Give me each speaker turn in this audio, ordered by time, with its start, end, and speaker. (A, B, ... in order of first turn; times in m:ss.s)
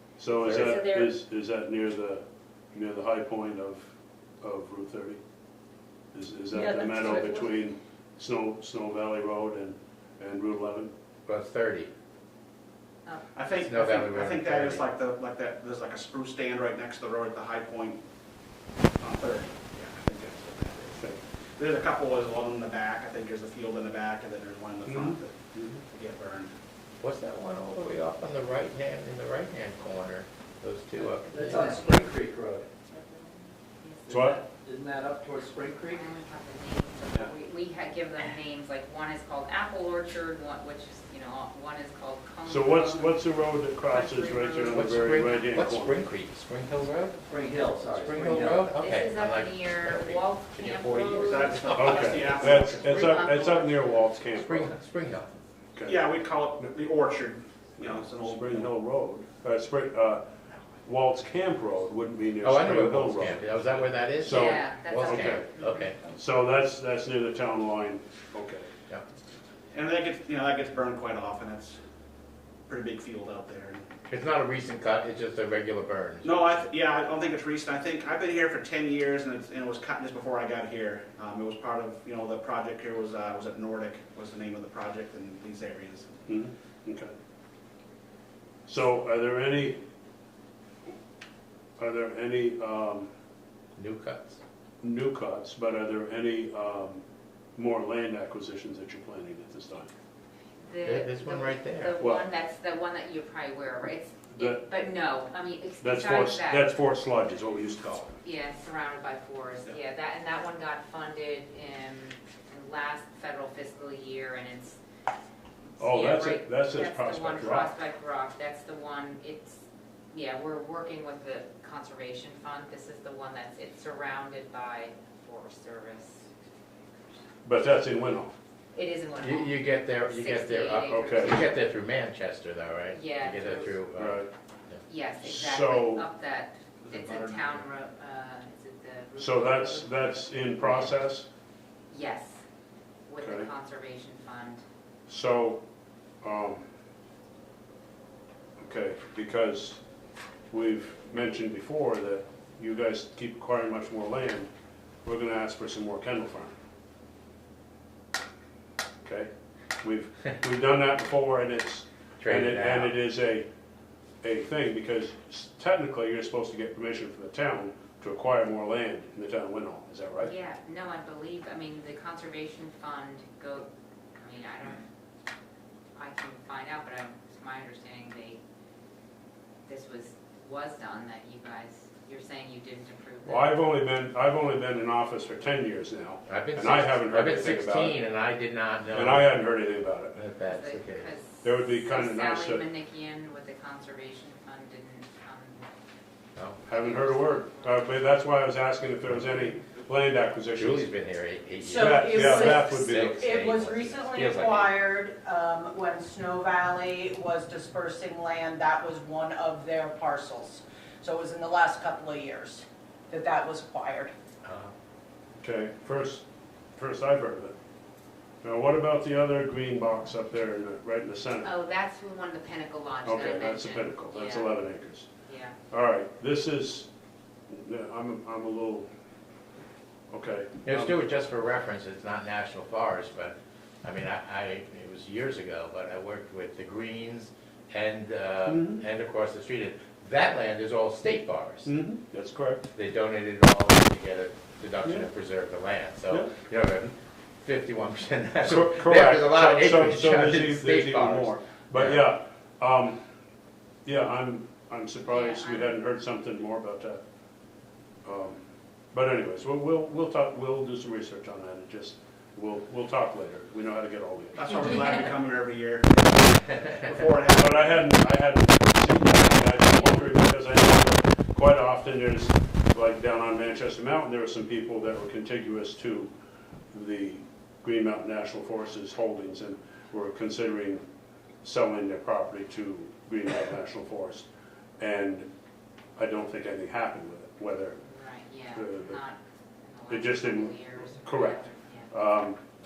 0:00.2-0:05.2 A
0:00.4-0:00.9 B
0:00.5-0:01.1 C
0:06.1-0:10.9 A
0:06.5-0:07.4 D
0:11.2-0:11.9 B
0:13.3-0:18.0 E
0:13.5-0:14.8 B
0:19.0-0:26.5 E
0:24.9-0:25.8 A
0:27.0-0:31.7 B
0:31.2-0:32.7 F
0:31.4-0:32.1 C
0:33.8-0:34.3 C
0:34.1-0:36.0 F
0:34.1-0:34.4 A
0:35.8-0:43.2 C
0:42.4-0:46.0 A
0:43.9-0:45.5 C
0:44.7-0:47.2 B
0:47.2-0:48.7 F
0:47.3-0:47.6 C
0:47.9-0:52.2 B
0:48.7-0:51.8 C
0:51.2-0:53.1 E
0:51.7-0:54.7 A
0:52.8-0:54.1 C
0:54.4-0:55.4 B
0:55.7-0:56.0 A
0:55.8-0:58.7 E
0:57.8-1:00.2 A
1:00.8-1:05.4 A
1:02.4-1:06.0 B
1:04.3-1:05.9 C
1:06.1-1:08.7 A
1:09.7-1:11.8 E
1:12.7-1:13.8 E
1:14.0-1:16.6 B
1:16.2-1:26.2 E
1:26.3-1:27.1 A
1:28.6-1:29.8 A
1:31.8-1:33.1 A
1:33.8-1:34.4 B
1:34.8-1:37.0 A
1:37.6-1:39.9 A
1:40.6-1:46.7 C
1:40.8-1:42.0 B
1:42.0-1:42.3 A
1:44.3-1:44.7 A
1:45.8-1:48.2 A
1:48.2-1:54.8 C
1:55.8-2:06.3 C
1:55.8-1:57.7 A
2:07.4-2:08.3 A
2:08.7-2:11.6 C
2:09.2-2:14.8 B
2:10.9-2:11.4 A
2:12.9-2:13.8 C
2:13.9-2:14.3 A
2:14.9-2:21.0 C
2:15.2-2:16.1 A
2:16.8-2:17.5 E
2:19.2-2:21.3 A
2:21.9-2:22.4 C
2:23.1-2:24.6 C
2:23.2-2:23.5 A
2:25.1-2:25.6 A
2:26.2-2:26.6 A
2:28.6-2:29.8 A
2:30.5-2:34.5 A
2:35.0-2:36.5 A
2:39.0-2:39.3 A
2:39.8-2:43.5 A
2:42.2-2:42.9 B
2:44.2-2:50.3 A
2:50.2-2:54.8 C
2:56.0-2:58.4 C
2:59.6-3:03.5 C
3:03.2-3:08.0 A
3:06.3-3:09.2 B
3:08.9-3:10.2 A
3:10.1-3:11.1 B
3:10.5-3:15.7 C
3:11.4-3:12.6 A
3:16.4-3:16.6 B
3:16.7-3:20.9 A
3:16.7-3:17.9 C
3:19.1-3:19.5 B
3:20.6-3:24.8 B
3:21.6-3:34.1 D
3:21.8-3:23.2 A
3:34.4-3:34.7 B
3:35.4-3:36.2 A
3:36.8-3:37.6 A
3:38.4-3:41.5 A
3:41.4-3:44.5 C
3:43.0-3:45.1 A
3:45.2-3:45.5 C
3:45.7-3:46.9 A
3:47.5-3:48.9 A
3:50.1-3:51.0 A
3:50.6-4:01.7 B
3:58.4-3:58.8 A
4:01.6-4:02.7 A
4:02.7-4:12.1 B
4:08.4-4:13.0 A
4:13.8-4:17.0 A
4:15.0-4:15.8 C
4:18.0-4:18.4 A
4:18.9-4:24.4 A
4:24.3-4:27.8 E
4:24.6-4:24.9 C
4:27.4-4:36.1 A
4:36.7-4:40.8 A
4:41.4-4:44.3 A
4:44.8-4:45.3 A
4:46.0-4:47.8 A
4:47.8-4:51.9 C
4:48.5-4:49.0 A
4:49.9-4:52.4 A